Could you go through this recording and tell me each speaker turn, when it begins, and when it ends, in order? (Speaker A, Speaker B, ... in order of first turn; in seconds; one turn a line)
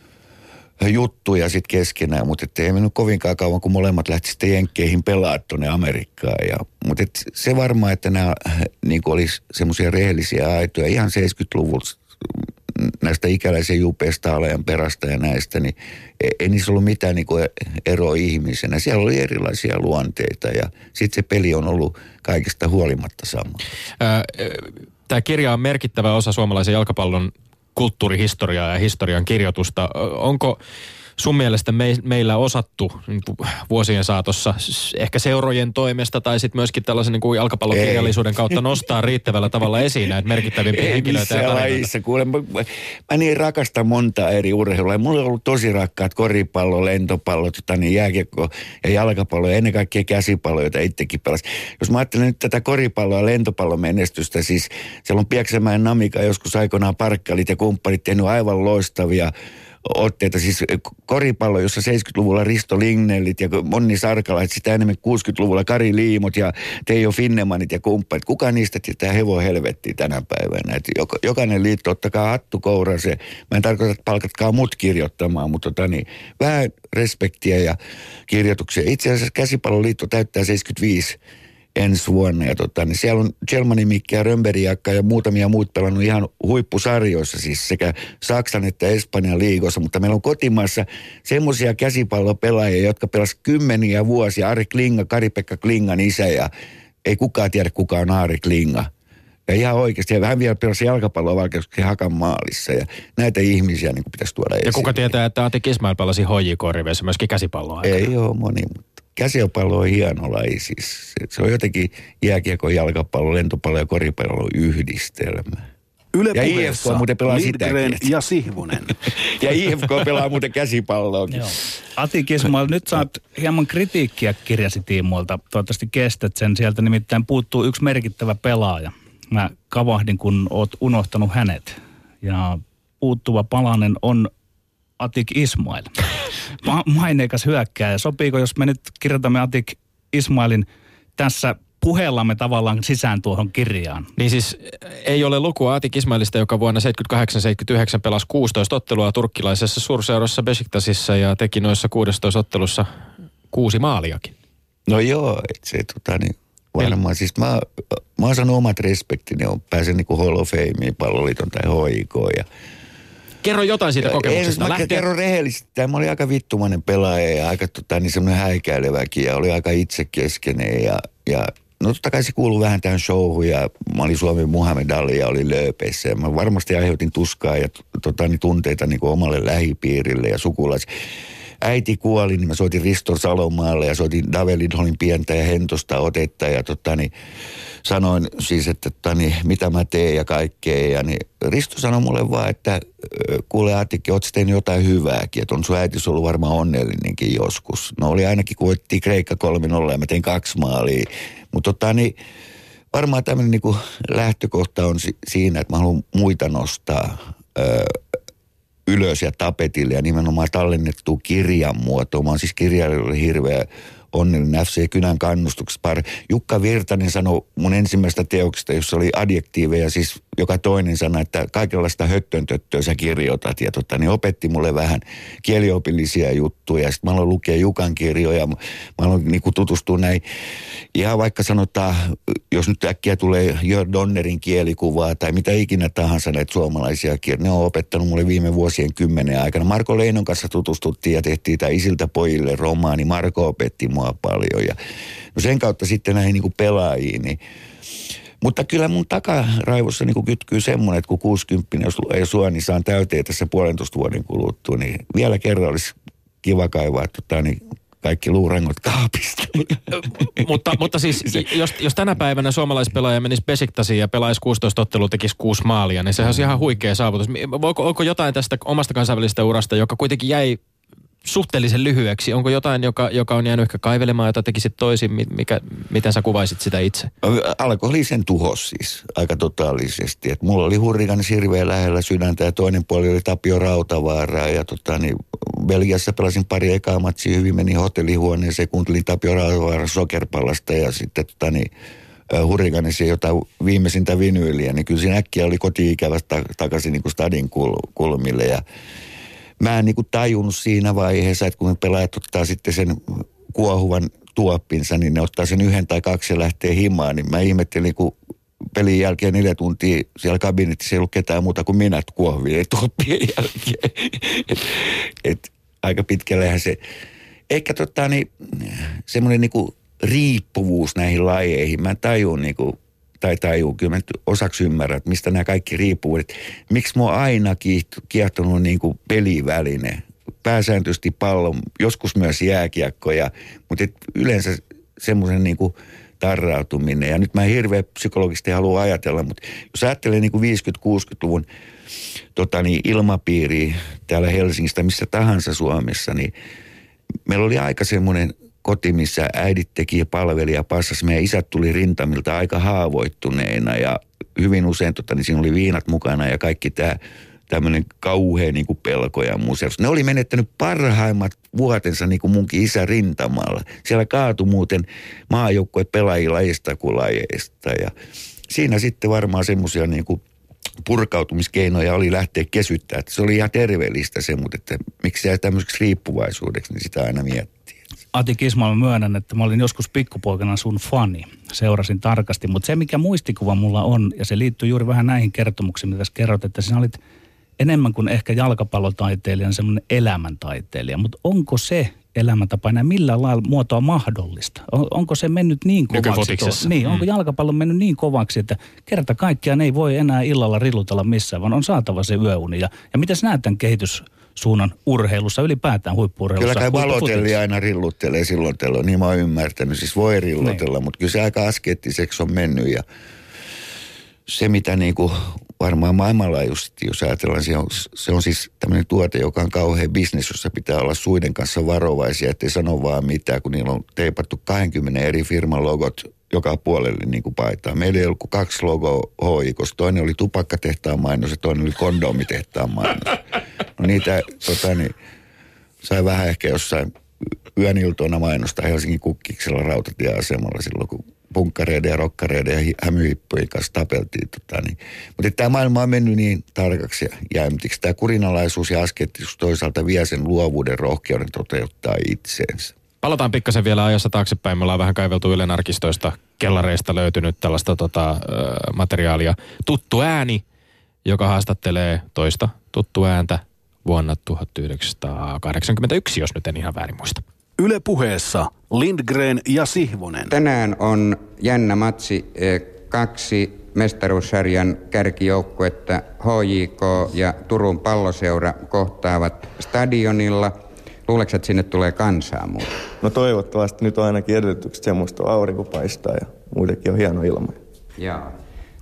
Speaker A: 0.8-23.6
Speaker B: 24.0-30.6
Speaker B: 31.2-41.9
Speaker A: 37.7-38.2
Speaker A: 40.7-59.3
Speaker A: 59.9-77.8
Speaker A: 78.3-81.2
Speaker A: 81.8-96.5
Speaker A: 97.0-98.9
Speaker A: 99.5-105.1
Speaker B: 104.7-108.0
Speaker A: 107.8-115.6
Speaker C: 116.2-119.1
Speaker A: 116.3-118.1
Speaker A: 119.1-121.5
Speaker D: 121.3-134.3
Speaker D: 135.0-135.9
Speaker D: 136.6-144.1
Speaker B: 144.2-152.9
Speaker B: 153.5-154.3
Speaker A: 154.9-162.5
Speaker B: 163.4-165.1
Speaker A: 164.0-180.9
Speaker A: 181.6-187.1
Speaker A: 187.8-202.2
Speaker A: 202.9-208.0
Speaker A: 208.9-230.2
Speaker A: 230.9-244.8
Speaker A: 245.3-247.4
Speaker A: 248.4-260.5
Speaker B: 260.0-270.6
Speaker B: 271.2-277.1
Speaker A: 277.2-291.7
Speaker A: 292.3-298.6
Speaker A: 299.6-308.2
Speaker A: 308.8-316.8
Speaker A: 317.5-341.5
Speaker A: 342.4-346.3
Speaker A: 347.3-367.9
Speaker A: 368.5-370.2
Speaker A: 370.8-377.8
Speaker D: 378.1-387.0
Speaker D: 387.6-407.4
Speaker B: 395.9-397.1
Speaker A: 406.4-412.8
Speaker A: 414.3-433.2
Speaker A: 433.8-434.9
Speaker A: 435.8-436.9
Speaker A: 437.6-452.7
Speaker B: 453.0-460.4
Speaker B: 461.1-467.2
Speaker C: 467.6-470.4
Speaker E: 470.3-480.6
Speaker E: 481.1-482.8
Speaker F: 483.0-487.6
Speaker E: 488.0-488.3